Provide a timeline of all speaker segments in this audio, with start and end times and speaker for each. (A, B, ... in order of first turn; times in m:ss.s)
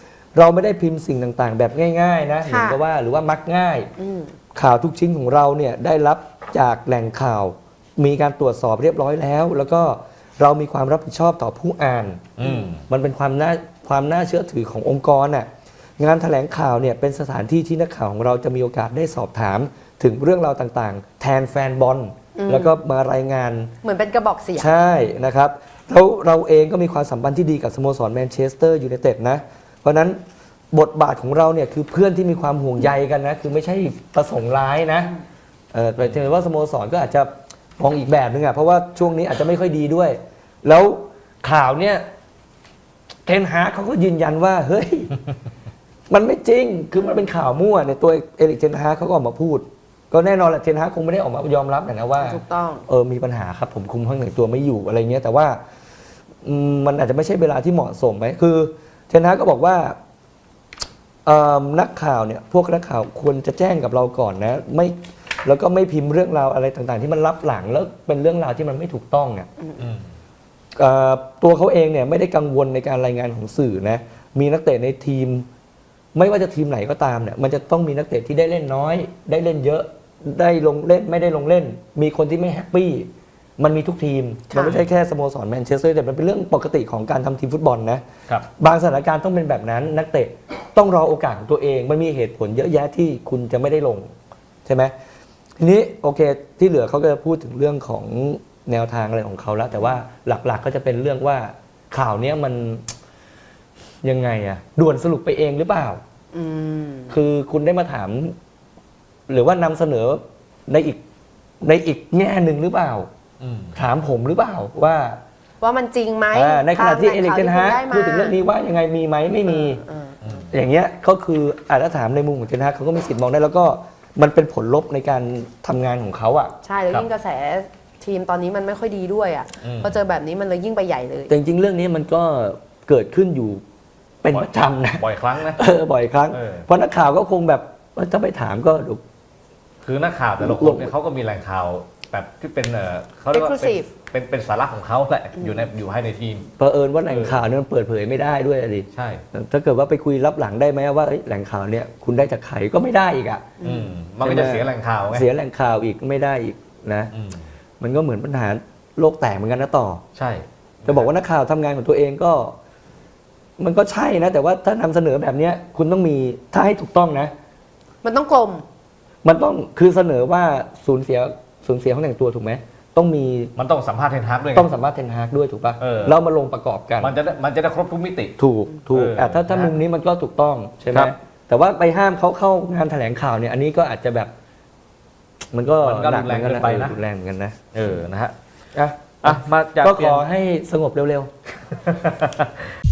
0:00.3-0:03.9 A
0:02.4-0:02.8 B
0:04.0-0:04.3 B
0:04.5-0:15.5 A
0:12.4-0:12.8 C
0:12.4-0:12.7 B
0:16.0-0:23.7 A
0:22.4-0:22.8 B
0:23.8-0:24.7 B
0:24.6-0:30.2 A
0:30.7-0:35.1 A
0:35.7-0:42.0 A
0:43.2-0:45.1 A
0:46.1-0:55.6 A
0:52.2-0:52.8 B
0:56.4-1:00.0 A
1:01.2-1:09.5 A
1:09.8-1:10.0 C
1:10.8-1:15.5 A
1:16.1-1:28.0 A
1:24.6-1:24.9 C
1:28.6-1:34.1 A
1:34.6-1:34.9 A
1:35.6-1:42.9 A
1:44.0-1:46.0 A
1:46.3-1:47.1 B
1:47.1-1:48.4 A
1:49.3-1:51.0 A
1:51.6-1:53.1 A
1:53.4-1:53.8 C
1:53.8-1:55.2 A
1:55.6-1:58.4 B
1:56.3-1:59.8 A
1:59.5-2:00.4 B
2:00.2-2:00.5 C
2:00.5-2:06.5 A
2:06.6-2:11.3 B
2:09.6-2:10.0 C
2:11.3-2:13.6 A
2:14.2-2:19.0 A
2:14.3-2:15.6 C
2:16.3-2:16.6 C
2:19.8-2:26.5 C
2:20.4-2:20.9 A
2:23.3-2:23.9 B
2:25.4-2:25.7 B
2:26.6-2:33.5 A
2:27.1-2:27.4 C
2:28.9-2:29.2 C
2:33.6-2:34.0 B
2:33.6-2:35.3 C
2:34.2-2:37.1 A
2:37.1-2:37.5 C
2:37.8-2:40.0 A
2:40.1-2:41.1 C
2:40.9-2:42.6 A
2:43.6-2:47.3 A
2:48.0-2:48.6 B
2:49.2-2:53.5 A
2:53.6-2:54.7 C
2:54.5-2:57.1 A
2:55.8-2:56.2 C
2:57.0-2:58.4 C
2:58.4-3:04.3 A
2:58.9-2:59.8 C
3:05.5-3:07.6 A
3:05.8-3:07.0 C
3:07.7-3:08.3 C
3:08.7-3:11.3 A
3:09.2-3:10.2 C
3:11.8-3:12.5 C